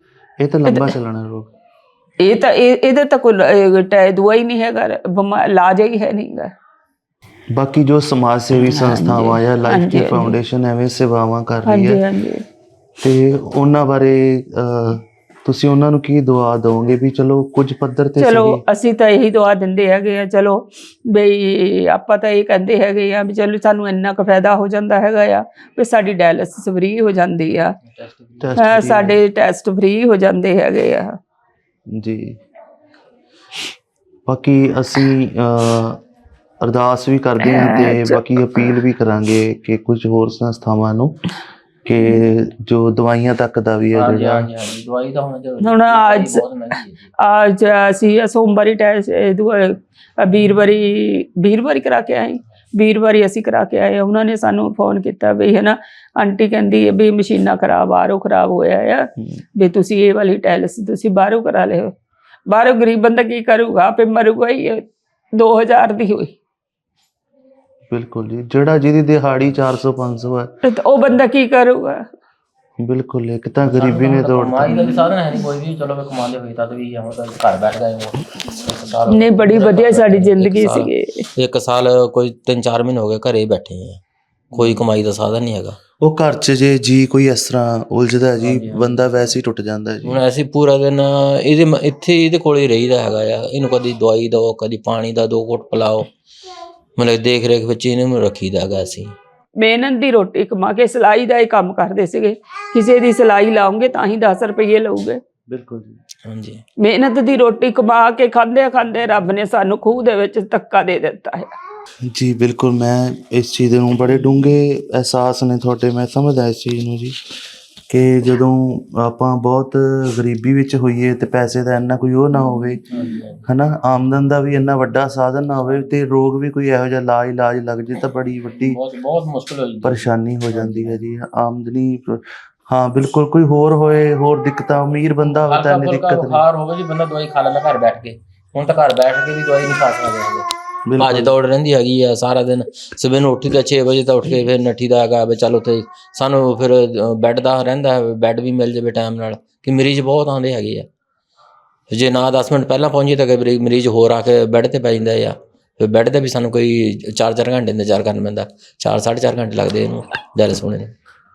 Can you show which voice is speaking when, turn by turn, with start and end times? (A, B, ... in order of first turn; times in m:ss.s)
0:00.4-0:01.5 A
0:00.7-0:00.9 B
0:02.2-0:06.5 B
0:07.5-0:12.0 A
0:08.7-0:10.4 B
0:11.7-0:12.4 B
0:13.0-0:18.6 A
0:18.2-0:27.8 B
0:28.0-0:28.5 C
0:28.4-0:29.2 A
0:28.6-0:31.2 B
0:31.9-0:32.4 A
0:34.3-0:36.0 A
0:36.6-0:41.3 A
0:37.4-0:38.7 B
0:41.8-0:44.5 A
0:43.9-0:47.1 C
0:45.6-0:46.4 B
0:47.2-1:01.9 B
1:02.5-1:04.8 B
1:05.4-1:06.4 B
1:07.9-1:10.5 A
1:10.6-1:12.0 B
1:12.8-1:14.9 A
1:13.8-1:24.0 C
1:19.1-1:21.3 B
1:24.5-1:25.8 C
1:24.5-1:24.8 A
1:26.0-1:30.2 A
1:28.4-1:29.1 C
1:30.1-1:36.1 C
1:37.0-1:39.1 C
1:39.6-1:45.2 B
1:45.5-1:46.0 A
1:46.2-1:46.6 C
1:46.8-1:51.5 B
1:52.1-1:57.2 A
1:57.9-2:02.9 A
2:02.9-2:03.4 C
2:03.5-2:08.8 A
2:08.6-2:11.0 C
2:09.8-2:16.4 A
2:15.3-2:30.9 C
2:20.9-2:21.3 A
2:31.9-2:40.9 C